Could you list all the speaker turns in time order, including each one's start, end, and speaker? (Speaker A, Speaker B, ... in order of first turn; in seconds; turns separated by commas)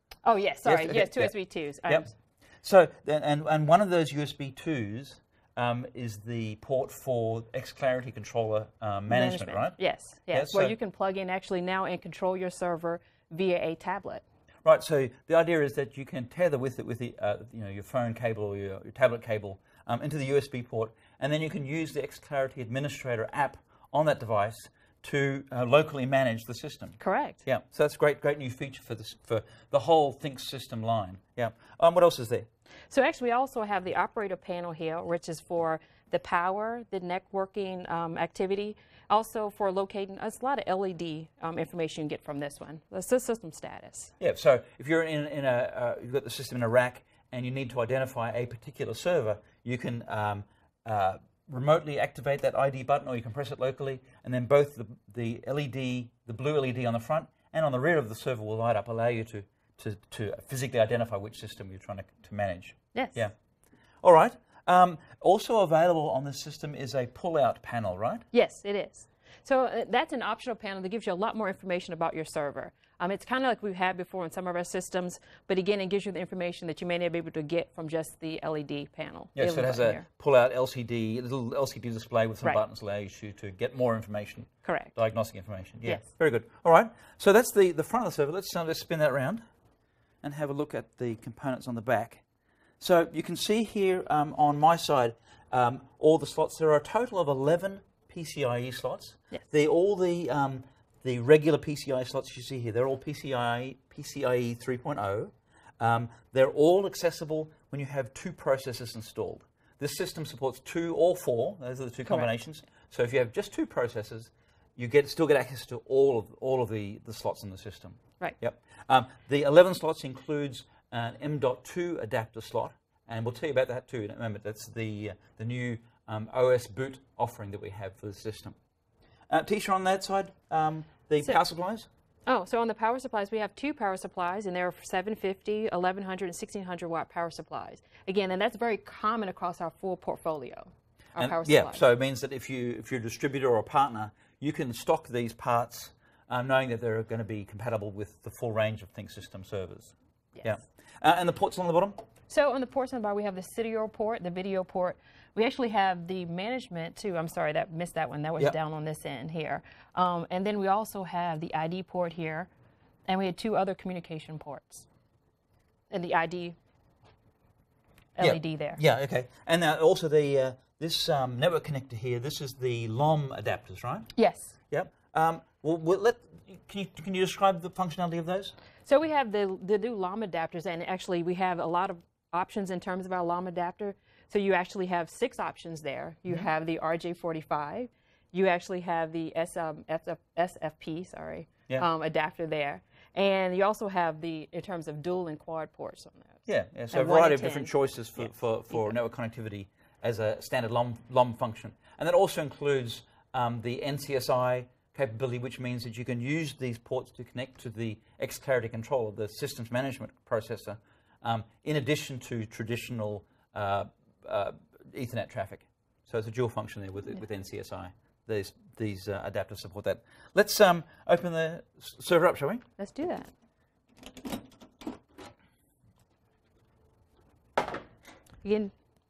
Speaker A: 0.2-2.1, Speaker B: 0.6-1.3, Speaker B: 2.6-9.8, Speaker A: 9.1-14.2, Speaker B: 10.3-10.8, Speaker B: 14.6-32.5, Speaker A: 27.0-27.4, Speaker A: 32.9-44.1, Speaker B: 44.2-63.3, Speaker A: 62.9-63.2, Speaker B: 64.0-68.2, Speaker A: 68.3-80.0, Speaker B: 79.3-89.4, Speaker A: 84.6-84.9, Speaker B: 90.2-92.2, Speaker B: 92.8-128.5, Speaker B: 129.3-131.9, Speaker A: 132.3-141.8, Speaker B: 141.2-152.0, Speaker A: 152.3-162.5, Speaker A: 163.1-164.8, Speaker A: 165.9-166.6, Speaker A: 168.2-168.8, Speaker B: 168.2-174.1, Speaker A: 174.2-174.5, Speaker B: 174.7-178.5, Speaker A: 178.8-198.9, Speaker B: 196.4-222.6, Speaker A: 222.8-223.3, Speaker A: 228.4-228.7